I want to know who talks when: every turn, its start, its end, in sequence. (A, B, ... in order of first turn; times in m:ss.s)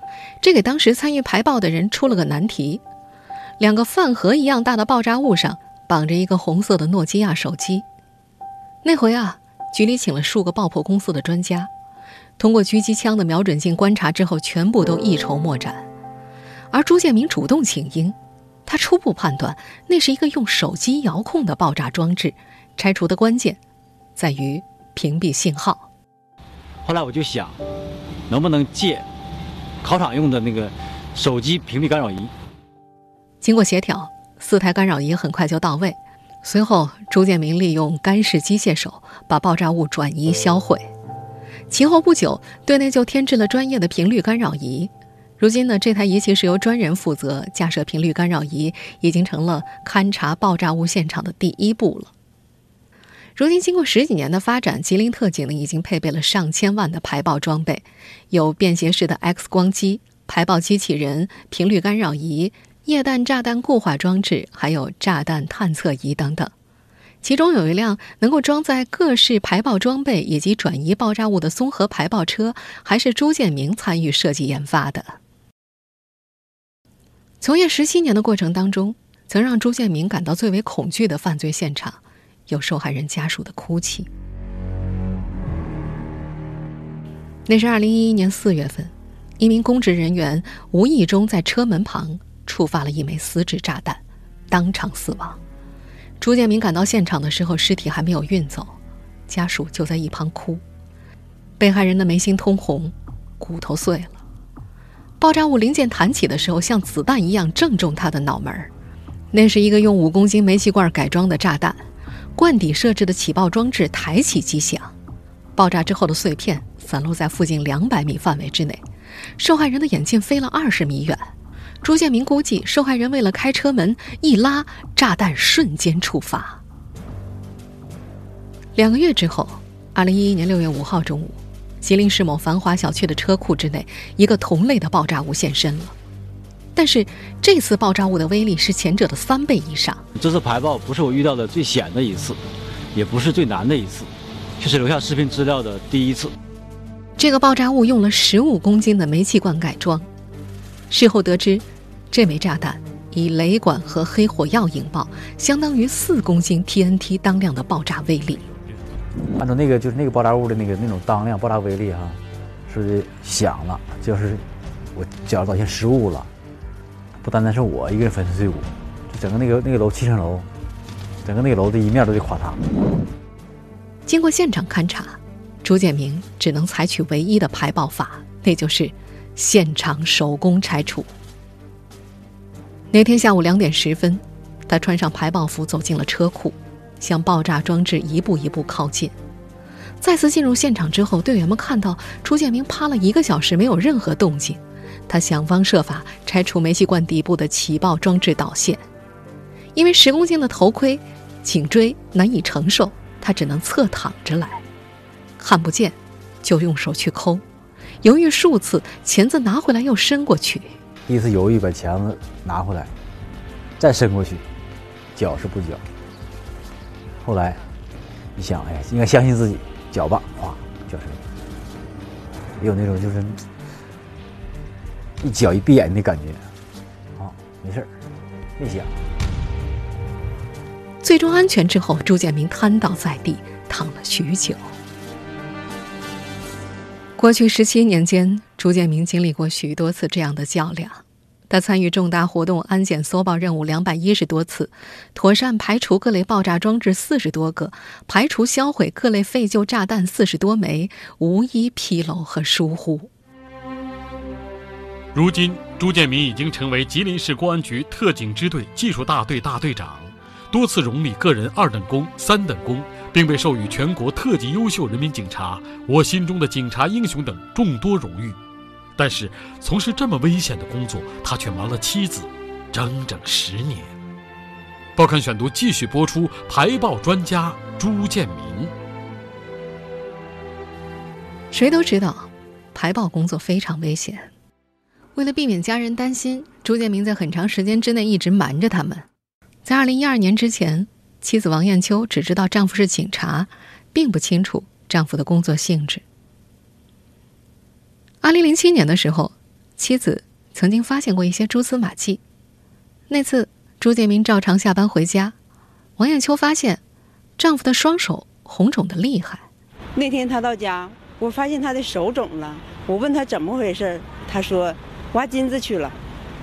0:00.4-0:02.8 A
0:03.6-0:07.9 A
0:08.8-0:11.7 A
0:12.4-0:15.9 A
0:16.7-0:23.6 A
0:24.2-0:25.9 A
0:26.8-0:27.6 B
0:28.3-0:29.0 B
0:29.8-0:32.3 B
0:33.4-0:40.9 A
0:41.7-0:52.1 A
0:53.4-1:06.5 A
1:07.2-1:15.2 A
1:17.4-1:24.1 A
1:27.5-1:35.4 A
1:36.2-1:38.8 A
1:39.3-1:40.6 A
1:41.6-1:44.2 A
1:45.2-1:48.7 A
1:49.3-1:51.8 A
1:52.4-1:55.0 A
1:55.6-1:58.8 A
1:59.4-2:01.3 A
2:01.8-2:06.6 A
2:08.8-2:16.0 A
2:16.8-2:20.0 A
2:20.2-2:22.4 B
2:22.9-2:26.3 B
2:27.2-2:30.1 A
2:30.9-2:38.4 A
2:39.3-2:46.3 C
2:47.2-2:50.5 C
2:51.2-2:52.6 C
2:54.1-3:01.1 A
3:02.9-3:09.1 A
3:10.0-3:18.8 A
3:19.8-3:24.6 A
3:25.4-3:27.4 A
3:28.0-3:30.8 A
3:31.1-3:32.9 C
3:33.8-3:34.4 C
3:35.2-3:35.8 C
3:37.2-3:37.7 C
3:38.4-3:41.2 C
3:42.6-3:43.4 C
3:45.2-3:46.5 C
3:47.2-3:47.9 C
3:48.6-3:48.9 C
3:51.0-3:54.7 A
3:57.2-4:13.1 A
4:15.1-4:28.4 D
4:29.0-4:33.9 D
4:35.0-4:38.7 D
4:41.5-4:44.3 A
4:45.2-4:49.0 A
4:49.6-4:56.0 A
4:58.2-5:02.2 A
5:03.1-5:05.4 A
5:06.0-5:06.8 A
5:07.4-5:09.5 A
5:10.0-5:16.0 E